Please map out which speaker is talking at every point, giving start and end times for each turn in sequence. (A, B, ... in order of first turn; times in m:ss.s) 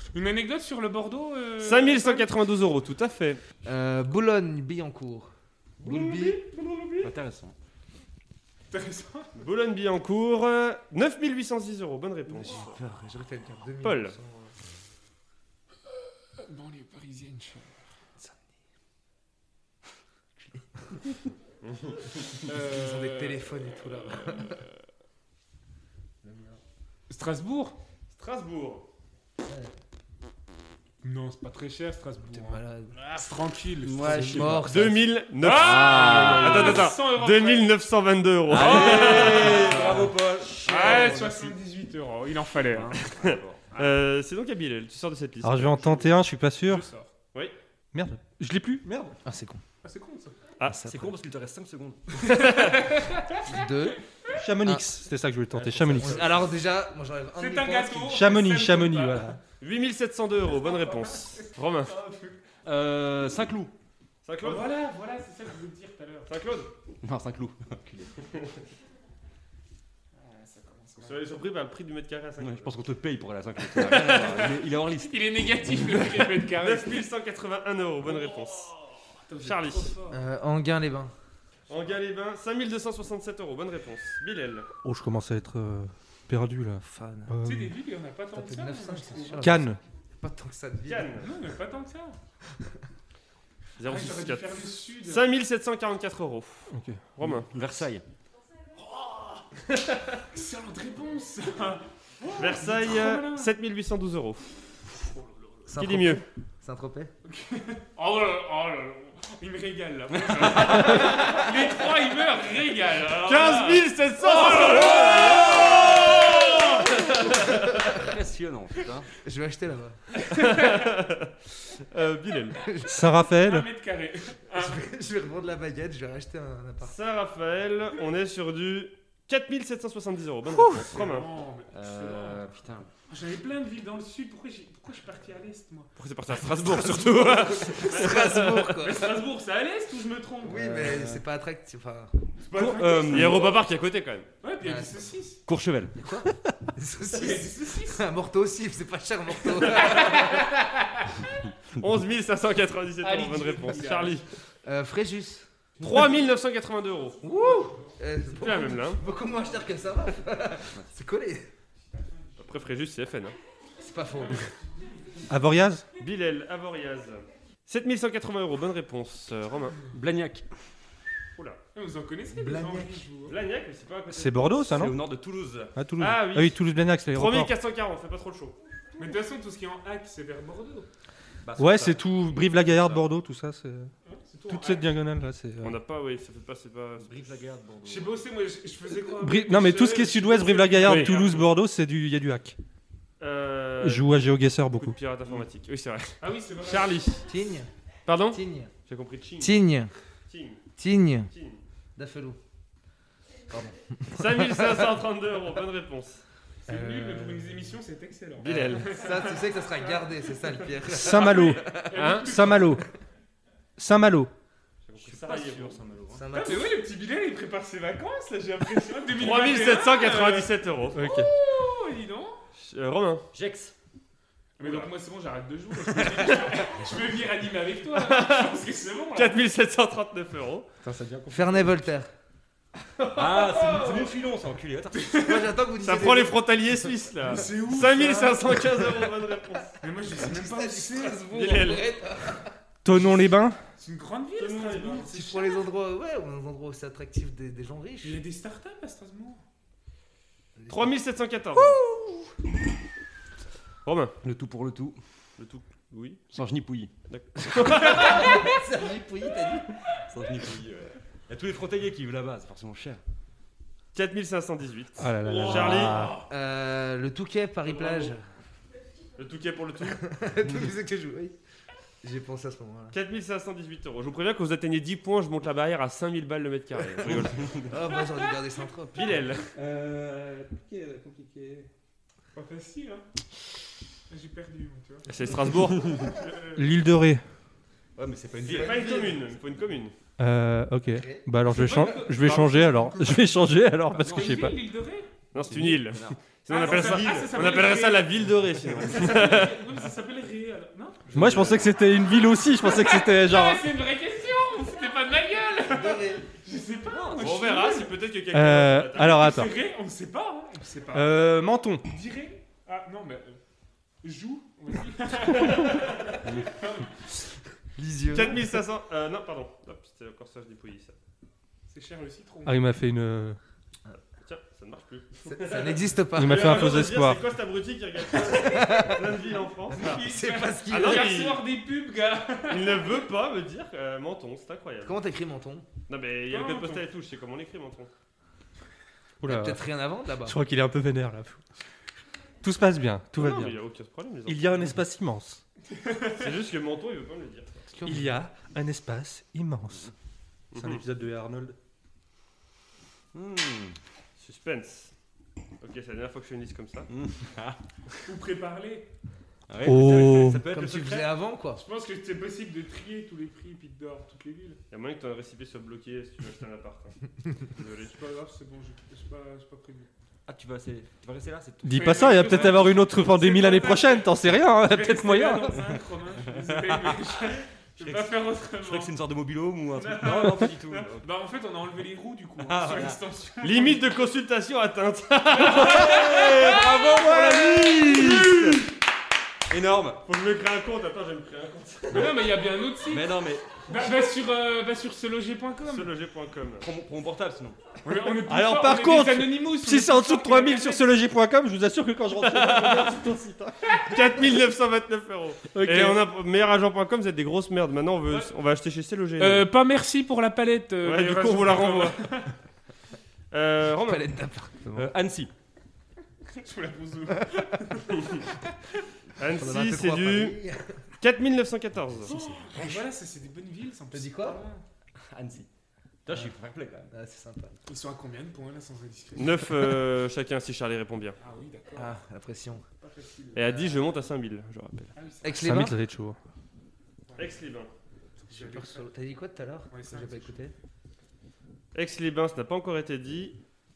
0:00.1-0:02.3 A
0:01.6-0:03.4 B
0:03.6-0:06.4 C
0:05.8-0:07.1 B
0:07.0-0:07.6 D
0:08.7-0:09.3 A
0:09.4-0:12.8 B
0:12.3-0:14.5 C
0:12.5-0:12.7 A
0:13.8-0:14.2 B
0:16.4-0:17.7 A
0:21.6-0:22.0 B
0:22.4-0:24.6 A
0:22.5-0:24.6 C
0:26.2-0:26.6 C
0:27.1-0:27.8 A
0:28.1-0:28.9 B
0:29.4-0:29.7 C
0:31.0-0:34.6 A
0:32.3-0:33.0 C
0:33.8-0:34.8 D
0:34.0-0:35.1 C
0:34.6-0:40.1 B
0:35.4-0:37.7 A
0:35.5-0:36.9 D
0:38.5-0:41.6 D
0:38.5-0:43.1 A
0:39.7-0:40.1 C
0:42.7-0:43.6 D
0:43.0-0:46.0 B
0:45.4-0:46.9 E
0:46.6-0:47.1 A
0:47.9-0:49.2 E
0:49.2-0:49.6 C
0:49.8-0:50.4 A
0:50.7-0:51.1 C
0:50.8-0:52.3 D
0:52.2-0:52.9 B
0:52.2-0:53.5 A
0:53.4-0:54.0 C
0:54.4-0:56.4 E
0:55.5-0:56.5 D
0:56.0-0:58.2 C
0:57.4-0:59.4 A
0:58.1-0:59.4 E
0:59.6-1:01.9 B
1:00.6-1:02.4 A
1:02.6-1:03.7 D
1:04.2-1:04.7 B
1:04.4-1:06.3 A
1:06.3-1:06.7 B
1:07.0-1:08.2 D
1:10.2-1:11.2 A
1:11.0-1:12.8 B
1:12.4-1:15.3 D
1:13.9-1:17.1 A
1:16.5-1:18.7 B
1:18.2-1:20.2 A
1:19.4-1:19.9 B
1:20.1-1:21.1 C
1:21.7-1:24.7 B
1:24.8-1:27.7 E
1:26.8-1:27.4 C
1:27.4-1:29.6 A
1:28.3-1:31.2 C
1:29.4-1:29.8 E
1:30.9-1:31.3 B
1:31.2-1:32.2 A
1:33.8-1:37.5 B
1:33.8-1:35.3 A
1:36.7-1:37.0 E
1:37.5-1:38.0 D
1:38.8-1:39.4 A
1:39.7-1:40.2 B
1:40.3-1:43.5 A
1:42.4-1:44.5 B
1:45.7-1:47.1 C
1:45.8-1:46.2 B
1:47.2-1:57.3 A
1:50.1-1:51.3 D
1:53.3-1:57.8 B
1:54.5-1:56.3 D
1:57.3-1:59.1 D
1:59.2-2:00.0 C
2:00.1-2:00.9 A
2:00.3-2:02.6 B
2:02.6-2:02.9 C
2:02.9-2:03.7 E
2:03.3-2:04.8 A
2:04.5-2:06.9 C
2:06.8-2:11.3 B
2:10.7-2:12.4 A
2:11.7-2:12.9 D
2:13.1-2:15.9 A
2:16.0-2:18.7 B
2:16.6-2:19.2 C
2:17.9-2:20.9 A
2:20.4-2:22.2 C
2:20.5-2:21.2 D
2:22.5-2:23.6 A
2:22.5-2:23.5 D
2:23.0-2:24.3 B
2:24.4-2:25.4 A
2:24.6-2:25.1 C
2:25.5-2:26.0 D
2:26.0-2:30.3 C
2:27.1-2:28.0 A
2:29.6-2:31.4 A
2:31.8-2:34.2 B
2:33.0-2:34.2 A
2:34.6-2:35.5 C
2:35.8-2:37.2 B
2:37.2-2:41.5 C
2:37.3-2:38.0 A
2:38.4-2:39.0 B
2:41.9-2:42.7 A
2:42.4-2:43.4 B
2:43.8-2:44.5 C
2:44.1-2:45.3 A
2:45.3-2:45.8 E
2:46.0-2:49.8 B
2:49.9-2:50.5 D
2:51.7-2:53.4 A
2:52.3-2:53.0 C
2:53.3-2:54.8 B
2:54.1-2:55.0 E
2:54.7-2:55.7 D
2:55.8-2:57.5 E
2:56.0-2:56.6 B
2:57.1-2:58.6 B
2:59.0-3:00.9 A
3:01.4-3:03.0 D
3:01.6-3:03.9 E
3:04.1-3:04.9 A
3:04.5-3:05.8 E
3:05.6-3:07.3 B
3:07.0-3:08.3 D
3:07.8-3:11.5 A
3:09.2-3:12.6 E
3:10.9-3:11.2 B
3:13.2-3:14.1 B
3:13.8-3:15.0 E
3:14.8-3:17.3 B
3:16.2-3:17.0 A
3:17.3-3:17.7 C
3:18.1-3:19.6 B
3:18.3-3:18.7 C
3:19.4-3:19.9 C
3:20.3-3:20.6 B
3:20.8-3:21.3 C
3:21.3-3:21.6 B
3:22.0-3:22.4 C
3:23.5-3:24.7 C
3:24.1-3:26.2 B
3:26.6-3:32.8 A
3:26.7-3:27.4 E
3:28.4-3:32.0 C
3:28.4-3:28.9 B
3:30.9-3:32.8 E
3:31.9-3:32.4 B
3:33.8-3:34.3 E
3:34.9-3:35.8 B
3:35.0-3:36.3 D
3:36.1-3:36.7 C
3:36.3-3:42.4 A
3:39.1-3:41.0 B
3:41.0-3:41.3 E
3:42.6-3:43.3 B
3:43.3-3:43.7 D
3:44.6-3:49.4 A
3:44.6-3:44.9 B
3:48.0-3:48.6 B
3:49.2-3:50.7 B
3:50.9-3:51.3 D
3:50.9-3:51.7 E
3:51.3-3:52.1 C
3:53.0-3:54.2 B
3:53.2-3:55.1 D
3:55.0-3:55.5 A
3:55.1-3:56.5 C
3:55.8-3:59.7 B
3:57.3-3:58.6 A
3:59.8-4:01.5 A
4:00.1-4:02.5 C
4:01.3-4:01.9 B
4:02.8-4:03.6 E
4:03.8-4:05.1 A
4:04.4-4:05.6 B
4:05.1-4:08.2 C
4:08.0-4:09.4 A
4:10.6-4:10.9 C
4:10.7-4:11.8 B
4:13.8-4:14.2 B
4:14.2-4:15.0 D
4:15.4-4:16.3 B
4:16.3-4:16.9 D
4:17.1-4:18.4 B
4:17.8-4:19.7 C
4:17.9-4:18.6 A
4:20.0-4:23.0 D
4:23.9-4:26.1 B
4:25.0-4:26.2 E
4:25.4-4:26.1 D
4:26.3-4:28.2 C
4:27.7-4:28.1 B
4:29.2-4:30.0 B
4:30.0-4:31.4 C
4:32.0-4:33.0 C
4:32.9-4:37.7 B
4:37.1-4:37.7 D
4:37.6-4:39.2 C
4:39.0-4:39.5 B
4:39.5-4:41.7 D
4:42.3-4:43.0 A
4:44.1-4:46.6 A
4:45.1-4:46.4 B
4:46.6-4:47.2 E
4:48.0-4:49.2 D
4:48.5-4:49.2 C
4:48.5-4:49.9 B
4:50.2-4:54.6 E
4:50.9-4:51.3 C
4:51.5-4:53.2 A
4:54.0-4:54.4 D
4:54.0-4:55.1 A
4:55.3-4:59.6 B
4:55.4-4:57.4 D
4:56.5-5:01.6 A
5:01.1-5:01.7 D
5:01.1-5:03.6 E
5:02.5-5:08.0 A
5:05.7-5:06.2 C
5:06.9-5:07.3 D
5:07.2-5:09.3 B
5:08.3-5:09.5 E
5:09.0-5:11.1 A
5:10.9-5:11.8 E
5:11.8-5:13.4 A
5:14.0-5:17.3 A
5:15.3-5:16.2 B
5:17.8-5:18.4 C
5:18.1-5:21.0 B
5:21.7-5:22.6 A
5:22.4-5:23.4 E
5:24.2-5:30.0 B
5:25.3-5:26.9 C
5:26.1-5:27.2 E
5:28.2-5:28.8 A
5:28.4-5:29.0 C
5:29.7-5:33.0 A
5:29.7-5:31.1 C
5:30.7-5:31.4 B
5:32.5-5:35.0 B
5:34.8-5:35.7 C
5:35.9-5:37.9 B
5:36.3-5:36.8 A
5:39.2-5:39.6 E
5:39.2-5:40.4 C
5:40.2-5:41.4 E
5:42.4-5:43.6 E
5:43.2-5:44.8 B
5:44.3-5:45.4 E
5:45.7-5:46.2 A
5:46.1-5:47.6 B
5:47.7-5:48.1 C
5:47.9-5:49.9 E
5:50.5-5:50.8 B
5:50.6-5:51.6 E
5:53.1-5:53.8 D
5:54.2-5:54.9 B
5:55.6-5:56.9 B
5:56.9-5:57.6 D
5:58.1-5:58.9 A
5:59.5-6:01.1 D
5:59.6-6:00.4 E
6:00.5-6:01.6 C
6:01.6-6:04.6 A
6:04.7-6:07.0 B
6:07.6-6:07.9 B
6:07.7-6:09.9 A
6:10.3-6:12.7 D
6:11.6-6:15.6 E
6:11.7-6:18.9 A
6:16.3-6:17.0 D
6:17.8-6:21.1 D
6:19.7-6:23.8 A
6:22.4-6:23.0 D
6:23.4-6:27.1 B
6:25.3-6:27.2 A
6:25.6-6:28.6 D
6:27.3-6:28.3 E
6:27.7-6:28.6 A
6:29.5-6:30.0 D
6:30.0-6:32.2 B
6:31.9-6:33.1 A
6:32.8-6:33.7 D
6:33.7-6:35.9 A
6:35.7-6:36.7 B
6:36.6-6:37.8 D
6:37.8-6:40.8 A
6:38.2-6:43.8 E
6:42.2-6:43.0 B
6:43.9-6:49.5 B
6:45.5-6:46.0 E
6:49.2-6:52.4 A
6:50.8-6:52.0 B
6:53.3-6:54.1 B
6:53.8-6:54.9 C
6:54.8-6:55.3 D
6:56.3-6:58.5 A
6:58.0-6:58.2 B
6:59.2-7:00.4 B
6:59.2-7:00.8 C
7:01.0-7:02.1 B
7:02.0-7:04.6 A
7:02.1-7:02.8 C
7:03.9-7:04.4 C
7:05.0-7:05.5 D
7:06.0-7:06.9 D
7:06.9-7:07.6 C
7:07.7-7:09.8 A
7:09.2-7:11.2 B
7:11.2-7:12.0 A
7:11.8-7:12.6 C
7:12.8-7:13.9 A
7:13.3-7:14.9 B
7:15.0-7:15.5 A
7:15.2-7:15.8 C
7:15.3-7:16.2 E
7:17.1-7:17.4 A
7:17.2-7:17.7 B
7:18.3-7:18.9 A
7:18.3-7:20.5 C
7:19.7-7:20.4 A
7:21.7-7:23.4 B